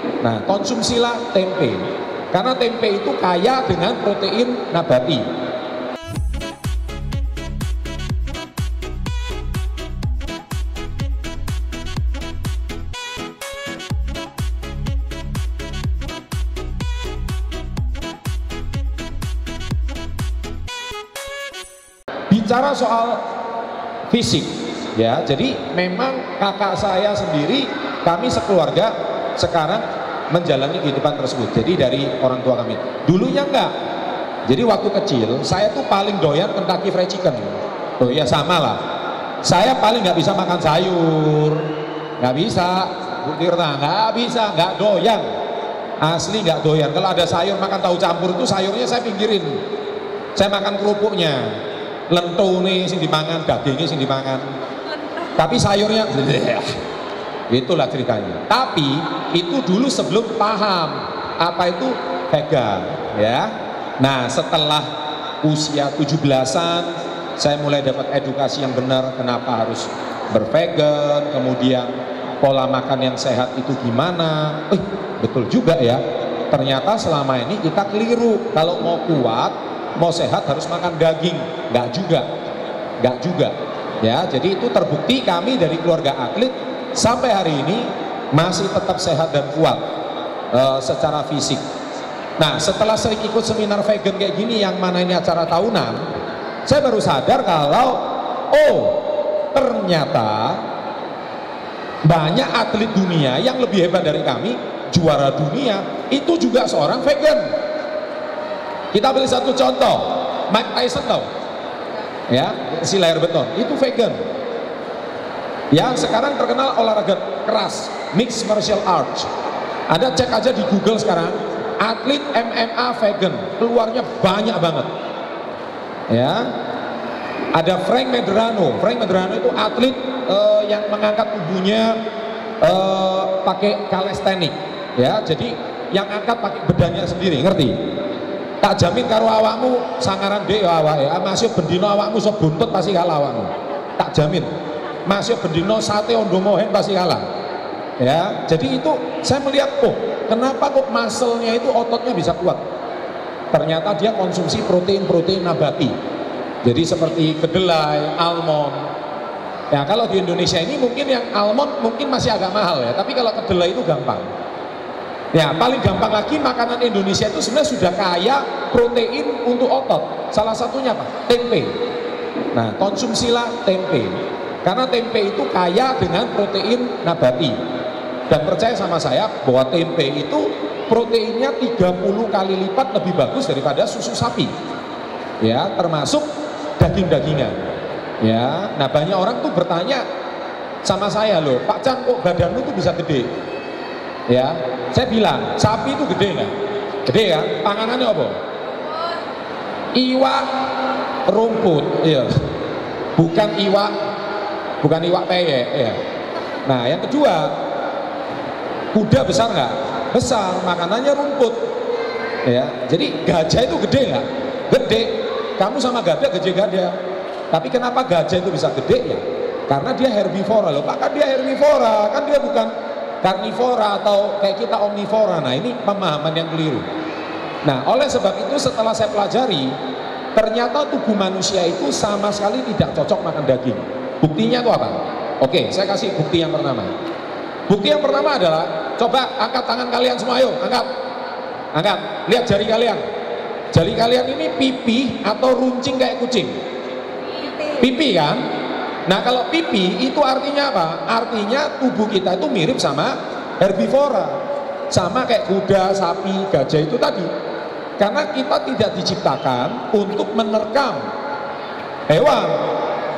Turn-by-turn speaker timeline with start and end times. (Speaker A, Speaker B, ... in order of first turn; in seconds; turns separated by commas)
Speaker A: 0.2-5.3, Speaker A: 22.3-23.2, Speaker A: 24.1-33.7, Speaker A: 34.5-38.8, Speaker A: 39.4-45.3, Speaker A: 46.0-49.6, Speaker A: 50.3-54.5, Speaker A: 55.3-56.7, Speaker A: 57.5-64.9, Speaker A: 65.4-82.3, Speaker A: 83.0-89.9, Speaker A: 90.5-91.6, Speaker A: 92.4-96.0, Speaker A: 96.7-100.6, Speaker A: 102.0-107.5, Speaker A: 108.9-111.3, Speaker A: 112.3-114.2, Speaker A: 115.7-119.3, Speaker A: 119.9-124.9, Speaker A: 126.1-126.5, Speaker A: 127.5-132.0, Speaker A: 132.6-137.8, Speaker A: 138.6-144.5, Speaker A: 145.1-147.2, Speaker A: 148.0-152.6, Speaker A: 153.5-155.9, Speaker A: 156.6-158.9, Speaker A: 159.7-164.3, Speaker A: 165.3-171.8, Speaker A: 172.5-177.6, Speaker A: 178.3-184.5, Speaker A: 185.4-187.6, Speaker A: 188.2-190.0, Speaker A: 190.8-193.3, Speaker A: 194.3-196.5, Speaker A: 197.0-198.4, Speaker A: 199.9-200.6, Speaker A: 201.3-202.3, Speaker A: 203.2-203.9, Speaker A: 204.8-206.0, Speaker A: 206.6-207.5, Speaker A: 208.9-211.6, Speaker A: 212.4-216.9, Speaker A: 217.5-226.9, Speaker A: 227.6-229.8, Speaker A: 230.3-236.9, Speaker A: 237.7-240.9, Speaker A: 241.7-243.0, Speaker A: 243.7-246.6, Speaker A: 247.7-248.5, Speaker A: 249.1-254.4, Speaker A: 254.9-257.3, Speaker A: 258.0-261.1, Speaker A: 262.1-262.6